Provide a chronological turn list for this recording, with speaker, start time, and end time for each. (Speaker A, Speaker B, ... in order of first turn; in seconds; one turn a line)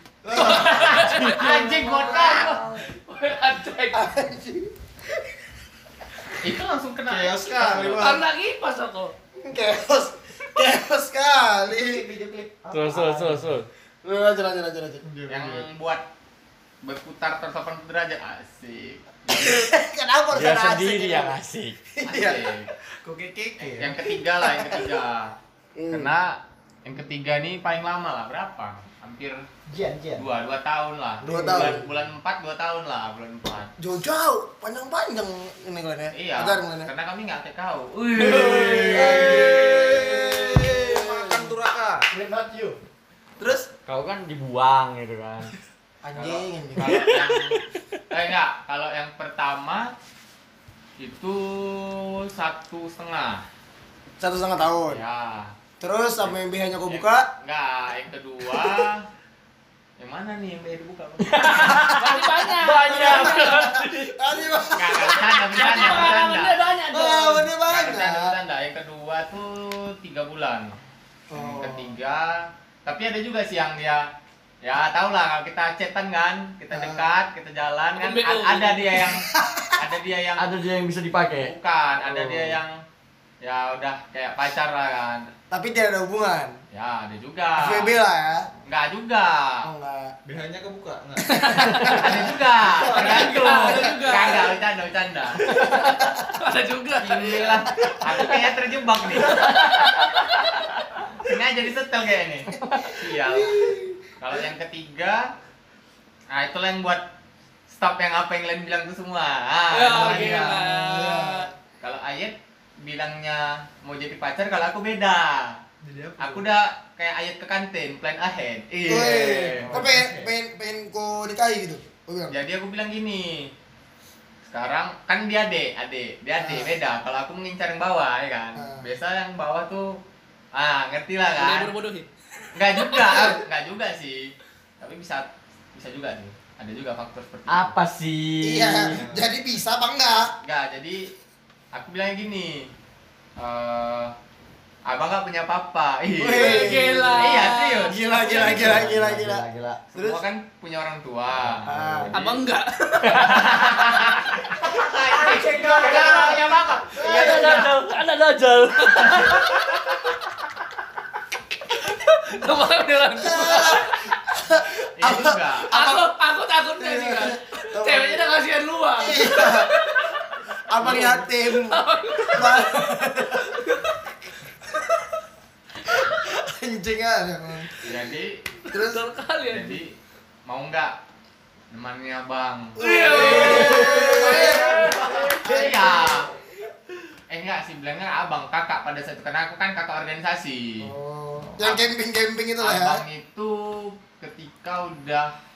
Speaker A: 0.2-1.0
Speaker B: 0.3-2.6
Speaker C: 0.3-4.0
Speaker D: 0.9-2.8
Speaker A: 3.9-4.7
Speaker B: 6.4-8.0
Speaker E: 7.1-8.3
Speaker C: 8.0-9.1
Speaker A: 9.4-12.0
Speaker F: 11.7-13.4
Speaker D: 12.7-13.7
Speaker A: 14.0-15.0
Speaker E: 15.0-15.7
Speaker B: 15.3-16.0
Speaker B: 16.8-19.7
Speaker A: 19.3-21.4
Speaker D: 20.3-21.8
Speaker A: 21.9-22.5
Speaker B: 22.0-22.7
Speaker F: 23.1-23.9
Speaker E: 23.2-23.8
Speaker B: 23.6-25.4
Speaker A: 24.4-24.9
Speaker A: 25.7-26.1
Speaker B: 25.9-29.4
Speaker F: 29.7-30.2
Speaker B: 30.1-33.7
Speaker A: 31.2-31.8
Speaker F: 31.2-31.8
Speaker A: 33.8-36.9
Speaker B: 36.1-39.9
Speaker A: 38.2-41.5
Speaker E: 38.5-42.1
Speaker F: 42.1-42.8
Speaker A: 43.4-43.7
Speaker D: 43.9-45.5
Speaker A: 46.0-47.1
Speaker B: 46.1-47.6
Speaker B: 48.1-49.9
Speaker B: 51.0-53.4
Speaker A: 54.2-55.0
Speaker B: 54.9-55.5
Speaker A: 55.8-57.3
Speaker B: 56.9-59.0
Speaker B: 60.0-61.9
Speaker D: 61.3-64.2
Speaker C: 61.4-63.7
Speaker A: 62.6-65.3
Speaker B: 64.7-66.6
Speaker C: 65.5-67.3
Speaker D: 65.6-67.3
Speaker A: 66.9-68.3
Speaker B: 67.6-70.7
Speaker A: 71.3-71.9
Speaker B: 71.3-74.0
Speaker B: 74.6-80.5
Speaker A: 76.7-77.1
Speaker C: 78.0-78.9
Speaker A: 79.1-79.8
Speaker D: 80.4-82.6
Speaker B: 81.4-82.8
Speaker B: 83.4-85.3
Speaker A: 85.5-86.6
Speaker B: 86.7-87.9
Speaker A: 87.6-88.5
Speaker B: 88.7-89.7
Speaker A: 89.6-90.1
Speaker E: 90.2-91.3
Speaker A: 91.3-94.3
Speaker C: 91.5-92.0
Speaker B: 91.8-95.4
Speaker C: 92.8-94.5
Speaker C: 95.5-97.7
Speaker B: 97.0-99.5
Speaker C: 99.2-100.4
Speaker B: 101.2-105.3
Speaker A: 103.3-104.0
Speaker B: 106.3-107.0
Speaker B: 107.7-110.6
Speaker C: 109.7-111.5
Speaker A: 110.0-111.5
Speaker B: 111.8-115.6
Speaker E: 115.8-116.5
Speaker B: 116.2-119.9
Speaker A: 118.9-122.4
Speaker E: 119.6-120.3
Speaker B: 122.3-123.5
Speaker B: 124.4-129.9
Speaker A: 126.4-126.7
Speaker A: 128.5-128.8
Speaker B: 130.5-131.7
Speaker C: 131.3-132.1
Speaker B: 132.5-137.8
Speaker D: 137.5-139.0
Speaker A: 138.4-140.3
Speaker E: 138.9-139.3
Speaker B: 140.4-141.1
Speaker B: 141.7-142.7
Speaker B: 143.4-144.1
Speaker B: 144.9-148.8
Speaker A: 146.2-150.2
Speaker C: 146.3-148.1
Speaker D: 148.1-149.8
Speaker B: 149.9-152.4
Speaker A: 151.6-152.1
Speaker C: 152.1-154.0
Speaker B: 153.1-157.7
Speaker D: 153.1-153.5
Speaker F: 154.7-157.5
Speaker A: 157.0-157.6
Speaker D: 157.0-159.5
Speaker C: 162.2-164.0
Speaker A: 163.2-166.1
Speaker B: 165.0-165.7
Speaker C: 165.7-170.2
Speaker A: 166.8-168.3
Speaker A: 169.0-169.7
Speaker A: 170.7-173.6
Speaker B: 170.8-171.2
Speaker C: 170.8-173.0
Speaker A: 174.7-175.0
Speaker A: 175.9-177.9
Speaker B: 177.8-178.4
Speaker A: 178.7-179.0
Speaker C: 178.7-179.8
Speaker B: 179.5-179.9
Speaker B: 180.4-180.9
Speaker B: 181.7-186.3
Speaker C: 182.8-185.4
Speaker A: 182.8-186.3
Speaker F: 184.2-185.3
Speaker B: 187.3-190.9
Speaker A: 190.8-193.0
Speaker B: 191.6-191.8
Speaker B: 192.6-195.3